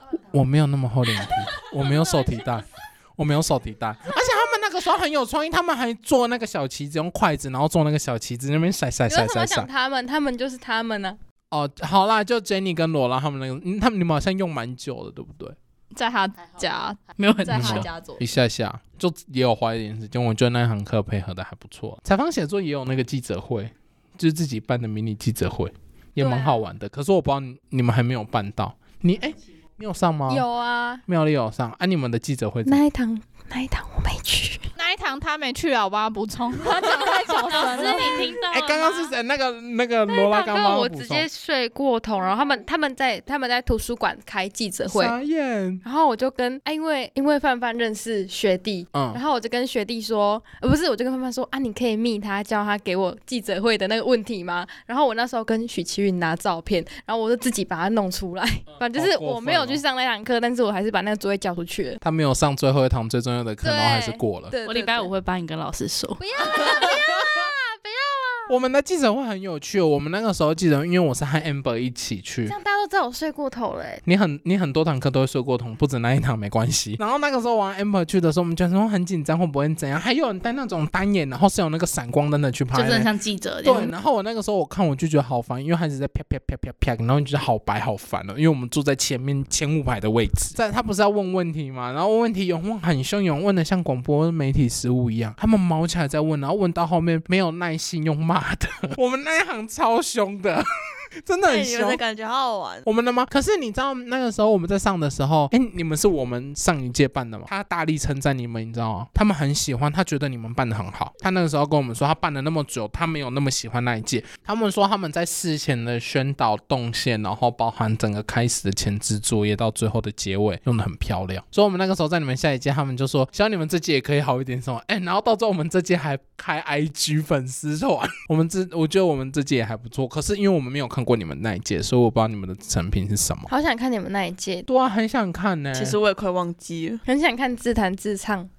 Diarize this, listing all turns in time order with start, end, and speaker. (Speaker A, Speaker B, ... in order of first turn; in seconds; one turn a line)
Speaker A: 0.2-9.7
Speaker B: 9.1-11.2
Speaker A: 11.5-15.6
Speaker C: 15.9-18.2
Speaker D: 17.1-17.9
Speaker A: 17.5-30.4
Speaker B: 26.2-26.6
Speaker B: 30.3-31.0
Speaker A: 31.1-32.8
Speaker B: 32.6-34.7
Speaker C: 34.8-38.3
Speaker A: 36.7-41.3
Speaker D: 37.3-39.1
Speaker B: 40.1-45.1
Speaker A: 44.9-45.8
Speaker B: 45.8-62.0
Speaker A: 48.9-49.2
Speaker A: 58.7-59.8
Speaker A: 62.0-64.5
Speaker B: 63.6-65.1
Speaker D: 64.6-66.2
Speaker B: 66.2-68.5
Speaker A: 66.5-66.9
Speaker A: 68.5-72.5
Speaker B: 72.5-74.0
Speaker A: 74.0-83.1
Speaker D: 82.7-83.9
Speaker A: 83.6-102.0
Speaker E: 101.5-102.8
Speaker A: 102.8-133.5
Speaker B: 133.5-134.7
Speaker A: 134.7-136.0
Speaker E: 135.7-137.0
Speaker B: 137.1-138.5